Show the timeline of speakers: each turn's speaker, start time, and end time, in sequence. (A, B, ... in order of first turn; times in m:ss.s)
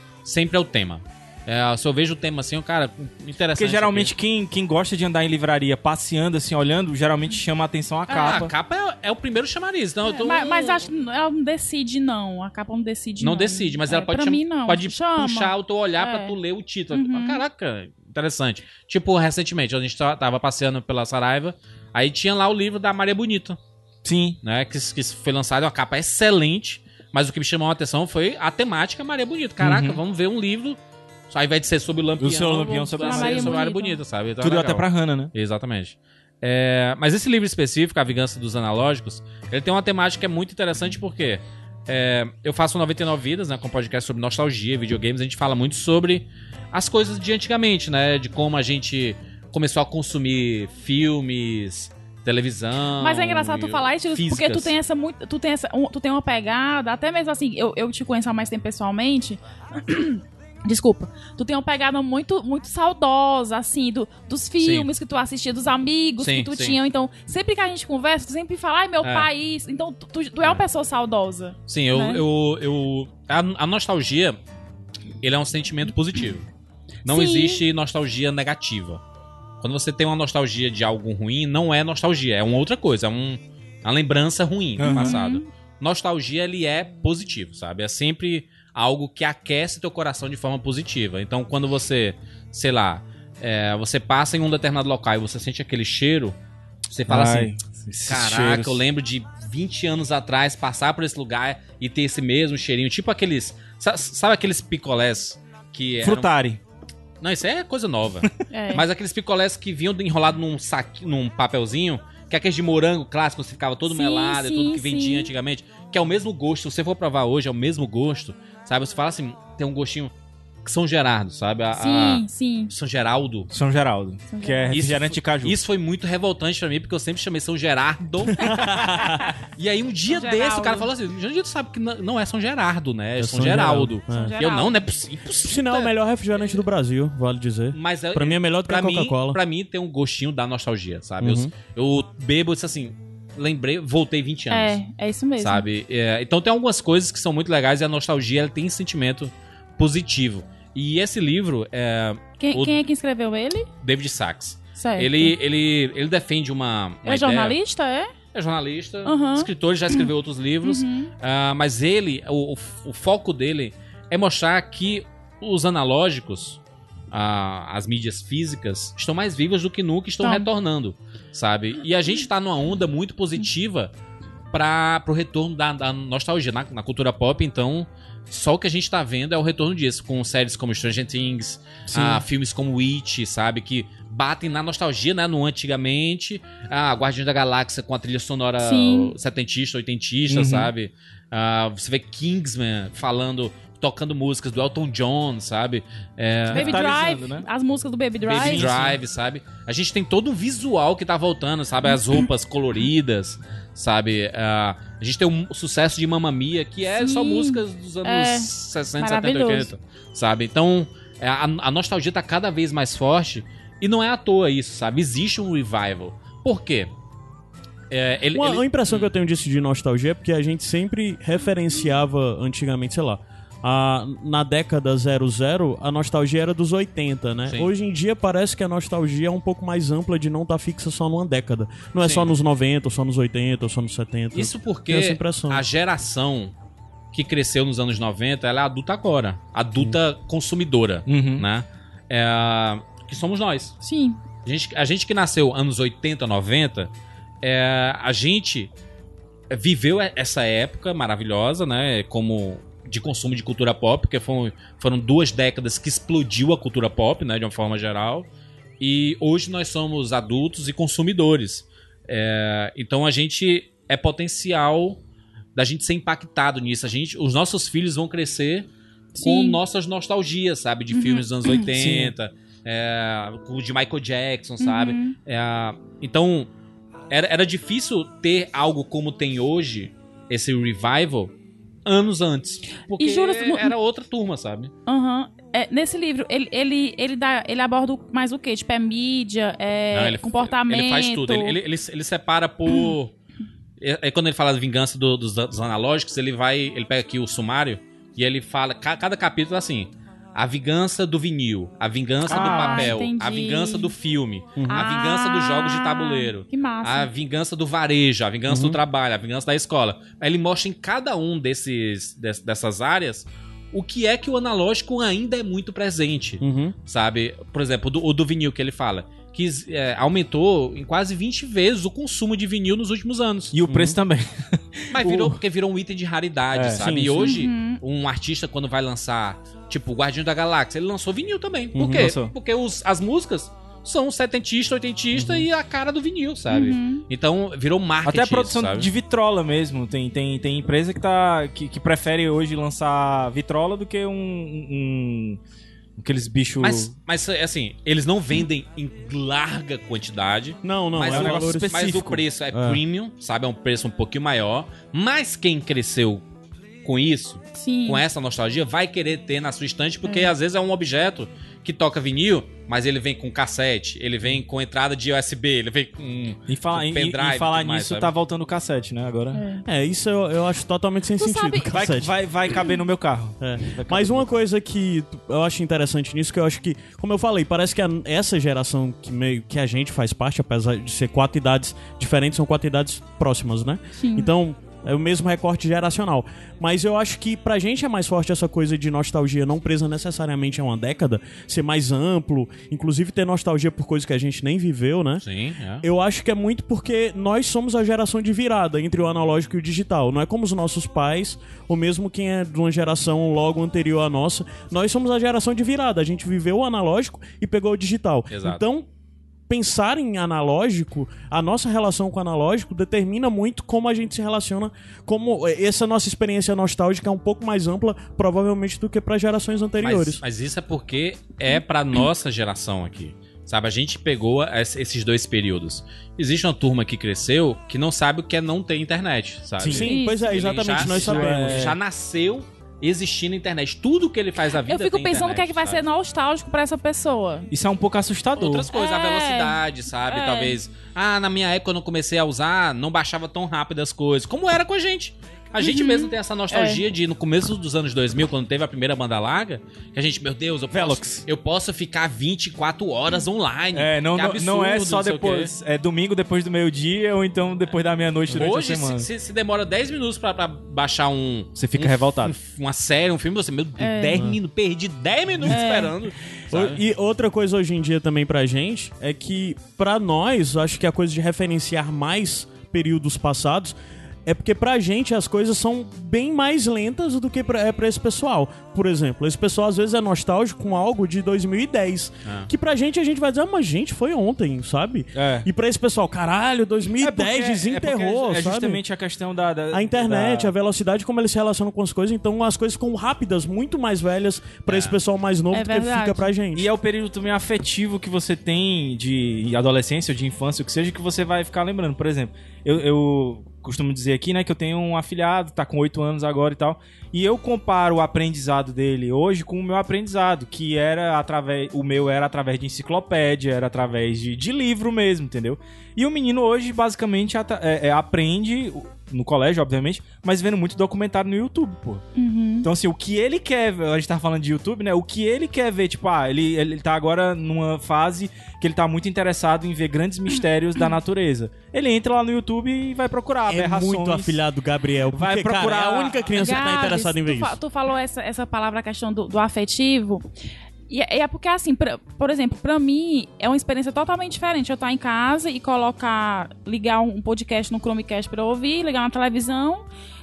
0:00.2-0:04.1 A
0:03.6-0:08.5 B
0:08.1-0:08.5 C
0:08.2-0:10.9 A
0:10.0-0:16.4 C
0:13.2-0:23.6 A
0:16.9-0:17.4 C
0:24.0-0:24.4 B
0:24.4-0:30.8 A
0:29.6-0:30.0 B
0:31.3-0:54.8 A
0:32.2-0:33.6 B
0:32.6-0:34.0 C
0:34.4-0:35.3 B
0:53.0-1:12.2 C
1:04.6-1:04.9 A
1:06.2-1:06.8 A
1:09.0-1:09.3 A
1:11.7-1:14.4 A
1:15.2-1:16.5 A
1:17.0-1:19.0 A
1:17.1-1:17.6 C
1:19.6-1:36.4 A
1:24.8-1:25.2 B
1:24.8-1:25.5 C
1:36.9-1:37.6 A
1:37.1-1:38.8 B
1:38.1-1:46.3 A
1:46.0-1:46.6 B
1:47.2-2:00.1 A
1:48.5-1:48.8 C
1:53.9-1:55.3 C
2:00.6-2:03.5 A
2:01.7-2:02.7 C
2:03.5-2:05.6 B
2:04.3-2:04.7 C
2:04.7-2:16.6 A
2:08.4-2:09.3 D
2:10.1-2:10.9 C
2:13.2-2:14.4 D
2:14.1-2:14.8 C
2:15.4-2:19.4 D
2:17.7-2:24.8 A
2:21.2-2:21.5 D
2:24.5-2:25.7 C
2:25.4-2:32.8 A
2:32.4-2:33.7 C
2:33.8-2:37.6 A
2:34.8-2:35.3 C
2:37.1-2:38.1 C
2:38.3-2:46.6 A
2:39.0-2:40.1 C
2:40.6-2:41.1 C
2:47.1-2:53.9 A
2:50.2-2:50.5 C
2:54.5-3:16.8 A
3:01.9-3:02.2 B
3:08.6-3:09.1 C
3:10.3-3:10.7 B
3:16.5-3:17.5 B
3:16.5-3:18.7 C
3:18.3-3:36.9 A
3:18.3-3:19.0 B
3:26.9-3:29.7 C
3:37.9-3:39.1 A
3:38.3-3:55.6 D
3:52.0-3:52.3 A
3:54.3-3:56.5 A
3:57.1-4:03.8 A
4:01.1-4:01.5 B
4:03.8-4:04.2 C
4:04.4-4:08.7 A
4:09.5-4:18.3 A
4:18.8-4:25.0 A
4:25.6-4:28.7 A
4:29.2-4:29.6 C
4:29.2-4:36.5 A
4:30.9-4:31.7 C
4:31.7-4:32.1 B
4:34.6-4:35.2 C
4:37.1-4:41.3 A
4:41.9-4:44.7 A
4:43.0-4:43.8 C
4:44.9-4:51.6 C
4:49.9-4:53.1 A
4:53.8-5:23.6 A
5:02.3-5:02.9 B
5:02.3-5:03.9 C
5:04.6-5:04.9 D
5:04.7-5:07.1 C
5:08.5-5:08.8 D
5:16.4-5:16.8 D
5:23.5-5:25.4 B
5:23.7-5:24.0 D
5:24.9-5:38.9 A
5:26.5-5:26.9 B
5:26.8-5:27.3 D
5:27.2-5:27.8 C
5:31.8-5:32.1 D
5:31.8-5:32.3 B
5:35.1-5:35.5 D
5:36.5-5:37.0 C
5:38.0-5:45.4 B
5:46.0-5:46.9 B
5:46.6-5:56.2 A
5:50.6-5:51.9 D
5:51.1-5:52.2 B
5:52.5-5:52.8 D
5:56.8-6:08.1 A
5:57.5-5:58.0 C
6:00.0-6:00.3 C
6:06.5-6:09.4 B
6:09.3-6:09.6 C
6:09.6-6:12.1 D
6:11.2-6:11.7 C
6:11.7-6:14.3 B
6:13.4-6:35.2 D
6:24.0-6:24.3 C
6:35.2-6:35.8 A
6:35.8-6:48.9 D
6:48.3-6:48.6 A
6:49.5-7:00.2 D
6:59.8-7:15.8 A
7:09.6-7:09.9 B
7:09.6-7:11.8 D
7:09.9-7:10.6 C
7:10.8-7:11.8 B
7:14.6-7:17.5 C
7:17.5-7:18.7 B
7:18.4-7:35.5 A
7:18.7-7:20.6 C
7:25.6-7:26.8 C
7:30.7-7:31.2 B
7:33.7-7:39.1 B
7:38.4-7:46.8 A
7:41.6-7:42.4 B
7:43.8-7:44.2 C
7:45.5-7:45.9 C
7:46.5-8:08.8 D
8:02.2-8:02.5 A
8:05.2-8:05.5 B
8:07.0-8:10.5 B
8:09.7-8:16.7 D
8:14.7-8:15.0 A
8:15.5-8:16.3 C
8:16.6-8:42.0 B
8:42.2-8:42.7 C
8:42.6-8:54.4 B
8:50.3-8:50.9 C
8:53.5-8:57.6 D
8:55.1-8:56.6 B
8:56.4-9:00.3 C
9:00.9-9:09.8 C